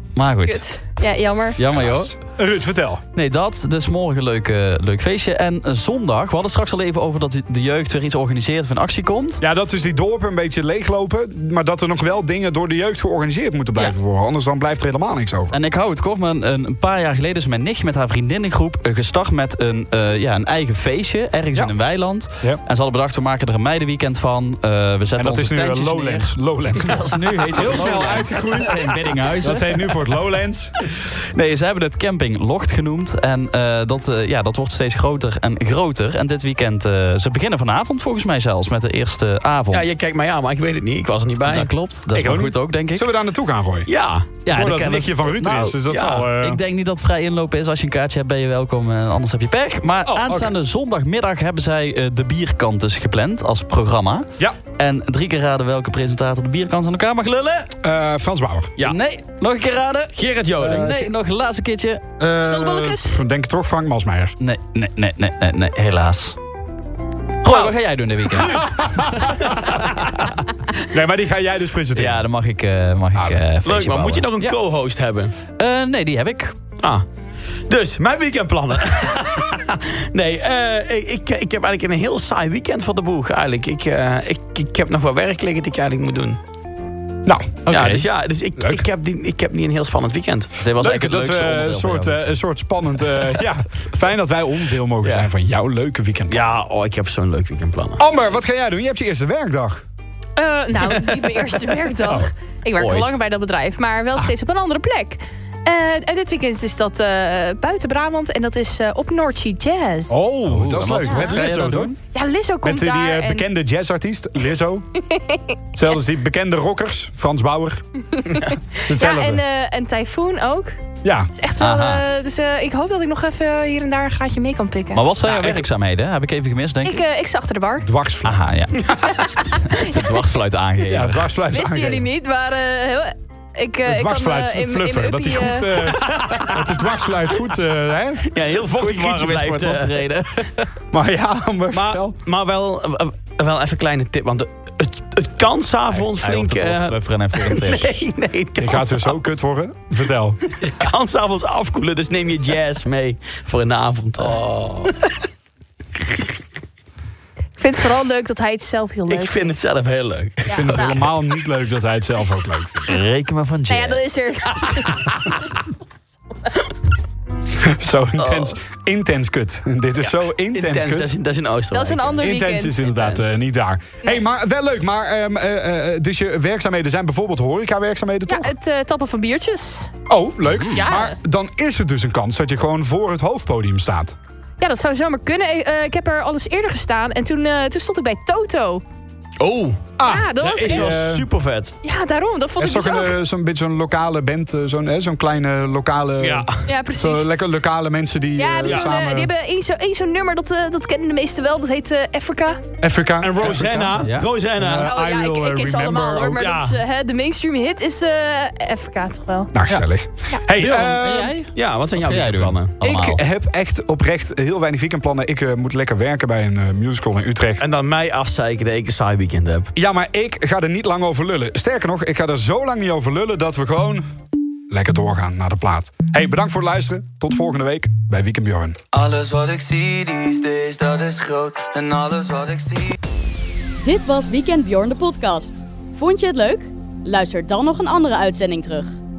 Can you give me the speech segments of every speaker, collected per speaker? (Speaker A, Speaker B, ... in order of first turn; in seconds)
Speaker A: 0.1-0.6, 1.6-2.1, 3.1-9.4, 15.5-29.7, 31.3-39.9, 41.5-43.1, 44.5-57.7, 58.8-62.0, 64.4-66.4, 67.4-70.0, 71.9-74.6, 75.6-76.5, 87.7-88.0, 90.6-92.3, 110.5-111.9, 121.6-122.0, 124.9-127.0, 128.2-129.0, 129.5-131.3, 138.7-140.7, 145.9-148.0, 162.9-164.1, 204.0-204.3, 210.6-213.2
Speaker B: 0.4-1.6, 62.4-63.2, 100.4-110.2, 111.0-111.4, 112.0-113.5, 118.3-120.8, 121.3-125.0, 126.8-127.9, 129.3-130.0, 131.5-135.7, 157.6-159.5, 160.5-161.0, 163.7-165.1, 171.7-172.8, 178.3-179.9, 180.7-181.2, 184.6-188.8, 190.0-190.9, 191.8-193.2, 196.7-197.3, 198.4-202.7, 204.8-209.5
Speaker C: 1.7-3.0, 9.4-15.6, 25.2-30.7, 42.1-43.9, 44.5-46.6, 50.0-50.5, 57.8-58.7, 60.6-61.0, 62.2-64.3, 68.5-69.5, 70.9-72.2, 73.1-73.4, 87.2-87.6, 90.8-96.5, 98.0-99.8, 110.1-111.9, 112.6-114.9, 115.7-117.8, 118.9-119.4, 121.0-121.3, 125.2-125.6, 127.8-128.5, 130.9-132.0, 133.8-138.2, 140.9-142.2, 148.6-150.4, 160.5-162.9, 167.6-171.1, 172.2-178.5, 180.1-184.2, 190.0-191.2, 192.6-199.3, 202.8-206.4, 209.5-211.3, 212.8-217.6, 219.7-224.1, 224.7-228.8
Speaker D: 39.7-41.7, 43.9-44.3, 45.9-46.2, 60.1-60.9, 73.6-75.3, 77.7-86.4, 87.7-90.5, 96.3-98.0, 102.8-103.2, 111.3-111.8, 135.8-136.6, 138.3-139.9, 141.7-149.2, 150.6-155.1, 159.1-161.1, 168.2-168.6, 170.0-172.3, 189.4-191.7, 196.2-196.6, 203.2-204.9, 206.3-206.8, 211.5-212.7, 217.6-219.7
Speaker E: 228.9-232.9
Speaker F: 233.8-238.9